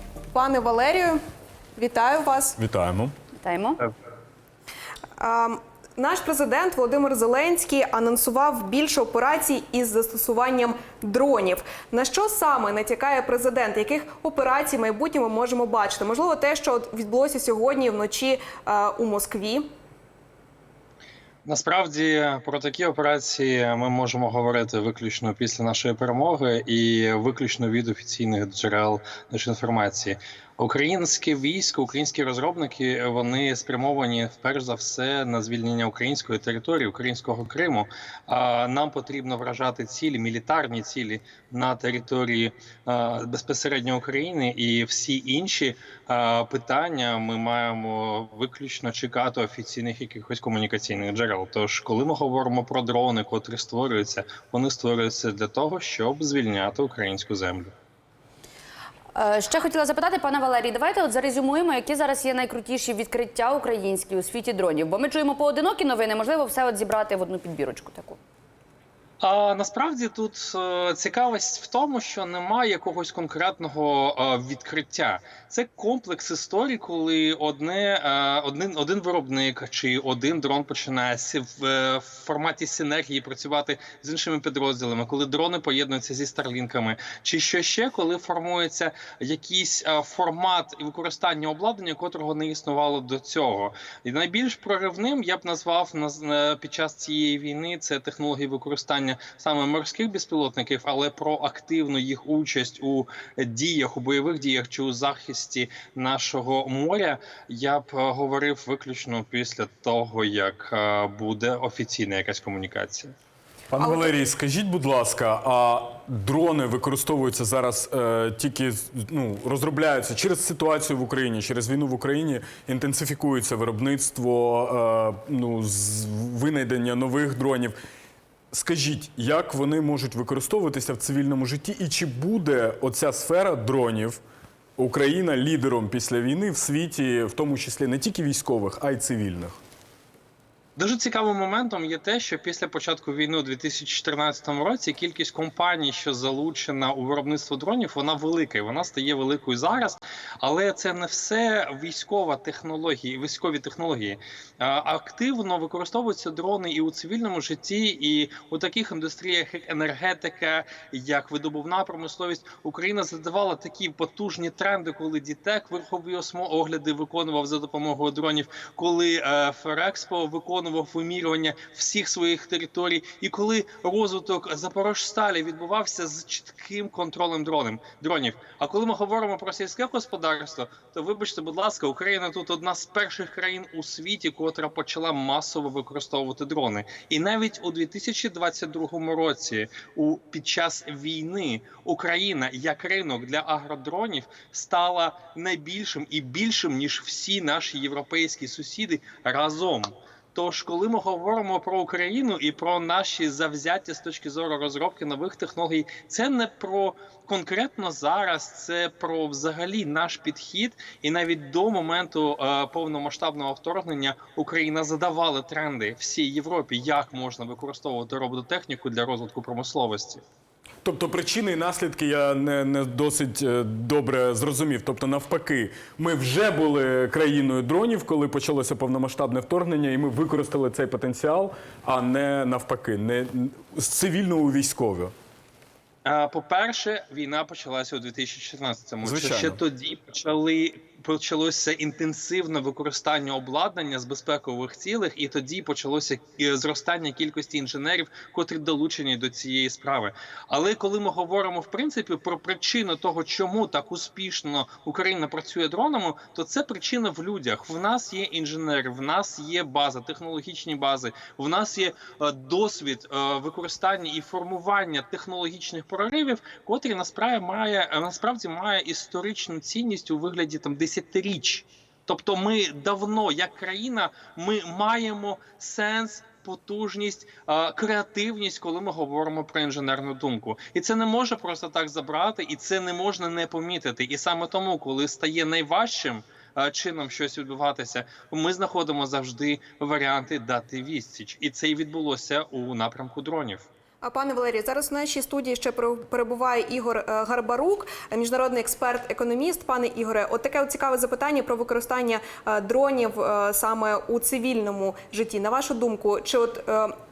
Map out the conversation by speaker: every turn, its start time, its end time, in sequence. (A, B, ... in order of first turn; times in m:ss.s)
0:00.3-0:01.2 A
0:01.8-0:02.6 A
0:02.6-0:03.1 B
0:03.4-0:03.8 C
0:05.2-0:19.7 A
0:21.4-0:57.7 D
0:59.1-1:08.2 C
1:09.2-1:53.1 D
1:53.7-2:07.7 B
2:08.5-2:14.2 B
2:14.8-2:19.6 B
2:20.8-3:40.2 D
3:40.8-3:55.1 B
3:56.0-4:53.6 D
3:59.0-3:59.6 B
4:54.0-5:06.9 A